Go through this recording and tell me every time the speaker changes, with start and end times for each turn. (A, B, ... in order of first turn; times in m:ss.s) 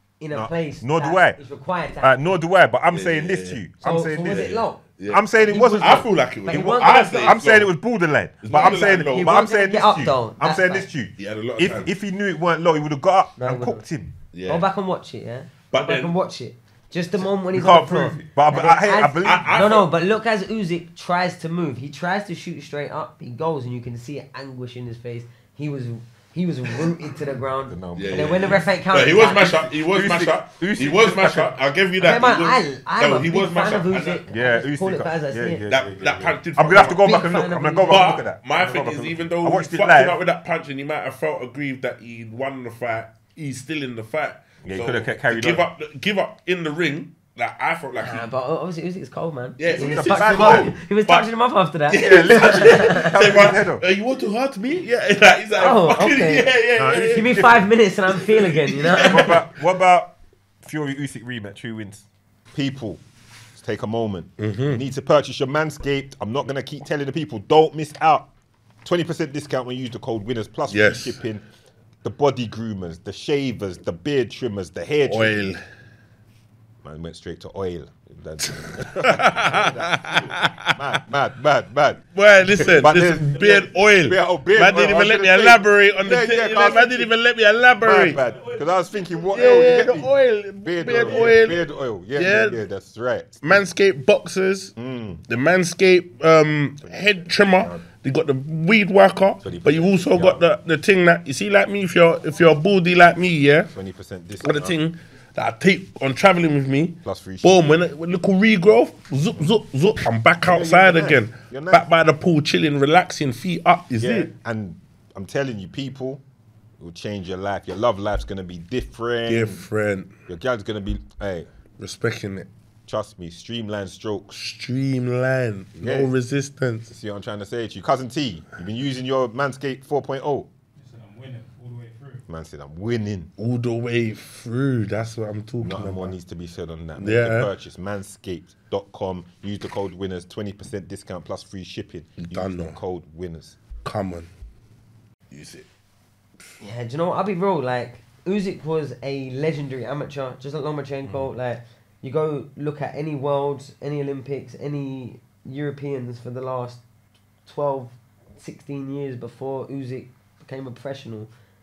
0:00.2-0:02.2 A
0:00.3-0:01.4 B
0:02.0-0:04.5 B
0:02.9-0:03.6 C
0:03.8-0:04.8 A
0:04.2-0:07.7 C
0:05.1-0:14.1 B
0:05.4-0:07.4 A
0:08.4-0:10.1 C
0:08.5-0:10.9 A
0:11.2-0:11.9 C
0:13.4-0:13.8 A
0:14.3-0:14.6 C
0:14.5-0:29.7 A
0:15.7-0:16.1 C
0:17.5-0:19.6 B
0:19.2-0:19.9 C
0:27.6-0:31.5 B
0:27.9-0:34.2 C
0:32.0-0:35.6 A
0:34.3-0:40.2 B
0:35.7-0:37.1 C
0:36.8-0:38.2 A
0:37.9-0:48.3 C
0:44.6-0:45.7 B
0:48.0-0:53.5 A
0:49.6-0:51.3 C
0:49.7-0:50.7 B
0:51.9-0:57.4 C
0:51.9-0:53.8 B
0:55.6-0:59.4 A
0:56.8-0:57.7 B
0:58.1-0:59.4 C
0:59.0-1:03.0 B
1:03.5-1:08.3 B
1:04.4-1:04.8 C
1:08.8-1:11.4 B
1:10.7-1:11.2 C
1:12.0-1:15.5 B
1:15.0-1:15.6 C
1:16.8-1:27.1 B
1:18.5-1:20.8 C
1:22.1-1:28.2 C
1:23.4-1:23.7 D
1:27.8-1:33.6 B
1:28.1-1:29.8 D
1:29.3-1:32.6 C
1:30.9-1:31.2 D
1:33.4-1:34.8 C
1:34.8-1:35.2 B
1:35.3-1:43.7 C
1:36.8-1:37.8 B
1:39.4-1:40.4 B
1:43.7-1:44.8 B
1:44.4-1:54.3 C
1:47.0-1:47.8 B
1:50.4-1:51.8 B
1:54.0-1:56.2 B
1:56.8-1:59.6 B
1:59.3-2:00.1 C
2:00.3-2:01.5 B
2:01.8-2:02.5 C
2:02.9-2:04.4 B
2:04.3-2:06.9 C
2:05.8-2:06.1 B
2:06.9-2:10.5 B
2:10.8-2:12.2 D
2:12.3-2:13.3 B
2:13.4-2:16.1 C
2:15.6-2:23.6 B
2:17.0-2:17.5 C
2:22.2-2:22.8 C
2:23.8-2:24.3 C
2:25.3-2:25.6 C
2:26.6-2:36.8 A
2:37.4-2:41.3 A